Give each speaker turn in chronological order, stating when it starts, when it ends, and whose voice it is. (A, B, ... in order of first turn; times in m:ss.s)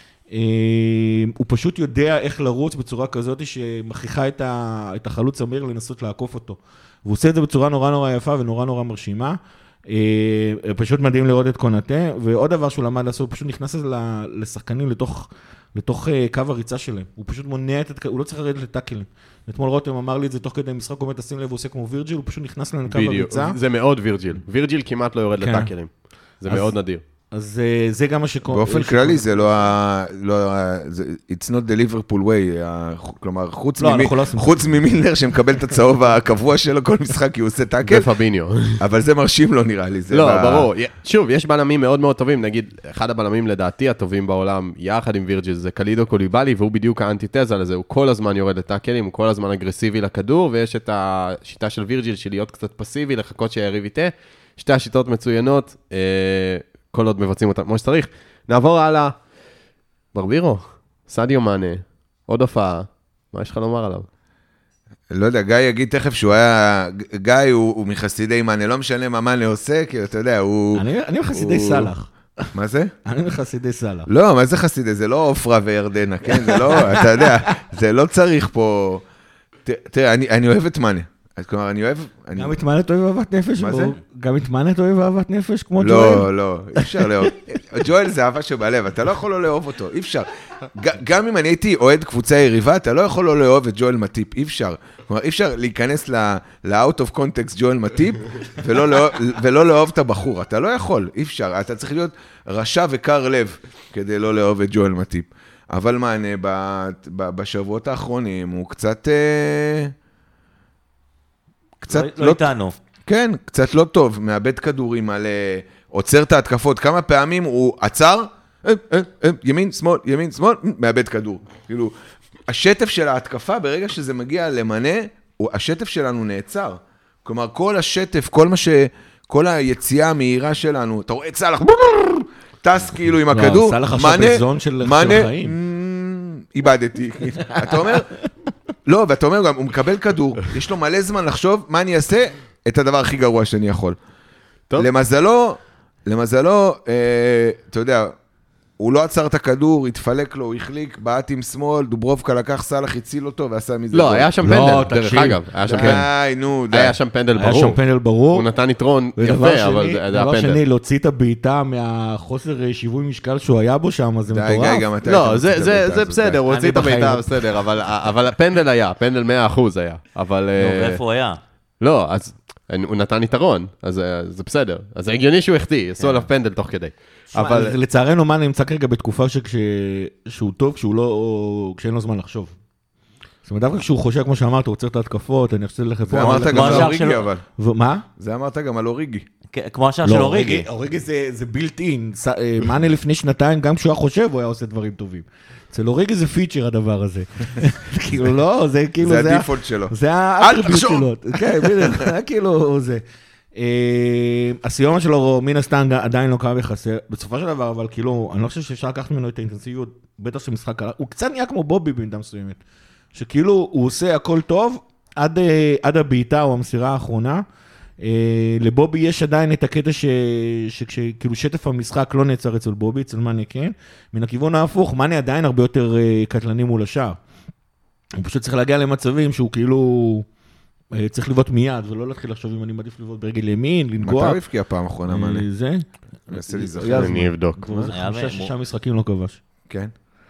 0:00.3-0:23.6 A
0:22.9-0:27.0 B
0:25.4-0:26.8 A
0:27.3-0:29.5 A
0:28.5-0:38.1 C
0:33.8-0:34.7 A
0:37.9-0:38.8 B
0:38.8-0:40.7 C
0:40.1-0:59.2 B
1:00.1-1:04.1 B
1:05.1-1:11.9 C
1:10.8-1:12.1 A
1:12.5-1:12.9 C
1:13.0-1:14.1 A
1:14.1-1:19.0 C
1:16.4-1:17.2 A
1:19.6-1:22.6 C
1:22.4-1:27.3 A
1:23.6-1:23.9 C
1:25.8-1:49.9 C
1:51.8-1:52.4 C
1:51.9-1:52.8 D
1:53.1-2:01.9 C
2:02.5-2:18.1 C
2:13.2-2:15.5 A
2:18.9-2:24.0 C
2:24.8-2:28.1 C
2:28.8-2:34.3 C
2:33.9-2:36.1 B
2:34.4-2:36.0 A
2:35.6-2:37.0 C
2:36.7-2:37.8 B
2:37.4-2:38.5 A
2:38.3-2:40.6 B
2:39.2-2:44.8 A
2:44.3-2:46.4 C
2:45.1-2:51.0 B
2:46.5-2:47.3 A
2:50.6-2:51.4 D
2:51.8-2:57.8 B
2:56.0-2:56.3 D
2:57.3-3:02.6 A
3:03.4-3:07.0 A
3:06.1-3:07.4 C
3:06.5-3:07.3 D
3:07.6-3:08.0 A
3:08.2-3:09.3 C
3:09.5-3:10.7 D
3:10.0-3:23.0 A
3:19.0-3:22.1 C
3:23.6-3:32.6 A
3:33.1-3:37.4 A
3:38.0-3:47.2 A
3:48.2-3:50.3 A
3:50.9-3:54.4 A
3:54.0-3:55.5 C
3:55.1-3:59.4 A
3:56.3-3:57.3 C
3:57.0-3:57.9 B
3:57.9-3:58.5 D